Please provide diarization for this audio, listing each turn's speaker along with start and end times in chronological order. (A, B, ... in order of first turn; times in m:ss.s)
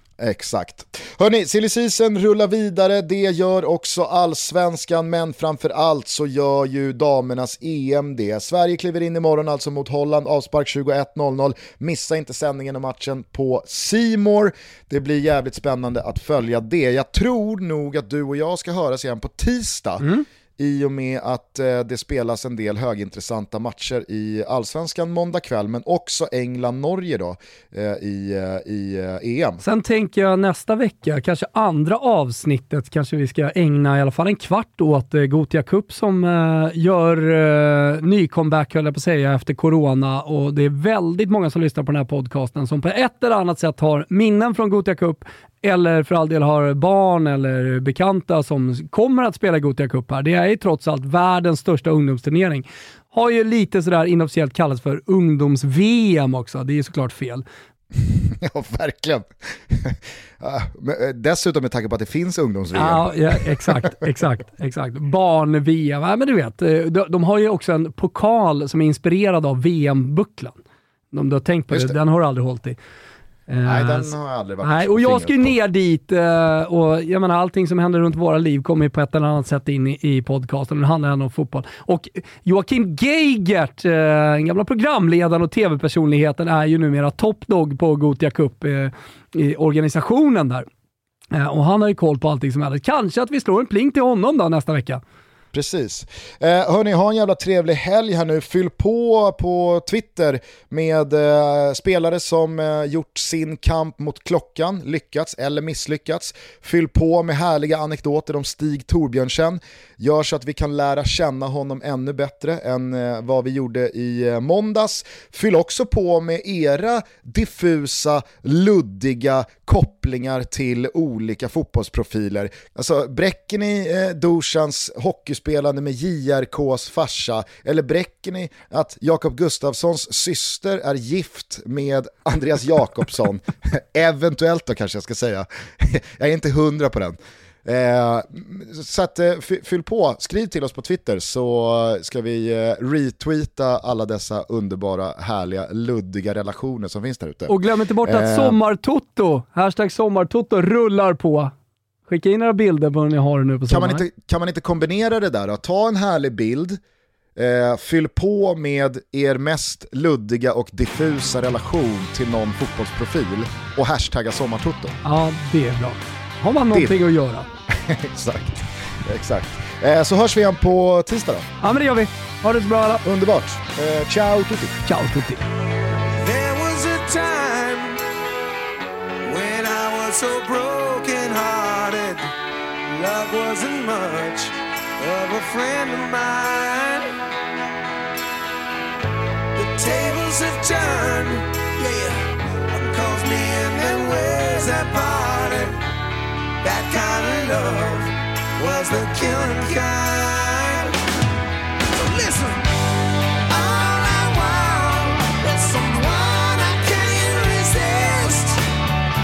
0:00.2-0:29.6 A
0:29.6-0:57.4 B
0:57.9-1:03.9 A
1:02.7-1:10.6 B
1:11.1-1:12.8 B
1:11.7-1:12.0 A
1:13.5-1:14.1 B
1:13.6-1:15.6 A
1:14.6-1:30.6 B
1:31.3-1:35.0 B
1:35.5-2:28.6 A
2:27.5-2:31.5 B
2:32.1-2:34.1 B
2:33.7-2:36.8 A
2:37.4-2:45.0 A
2:45.0-2:47.5 B
2:46.7-2:47.0 A
2:47.7-2:51.5 A
2:51.6-2:53.0 B
2:53.0-2:54.8 A
2:54.8-2:55.4 B
2:56.1-2:58.0 C
2:59.2-3:02.3 C
3:02.9-3:07.1 C
3:09.5-3:15.8 C
3:16.6-3:20.9 C
3:21.9-3:22.7 C
3:23.5-3:28.6 C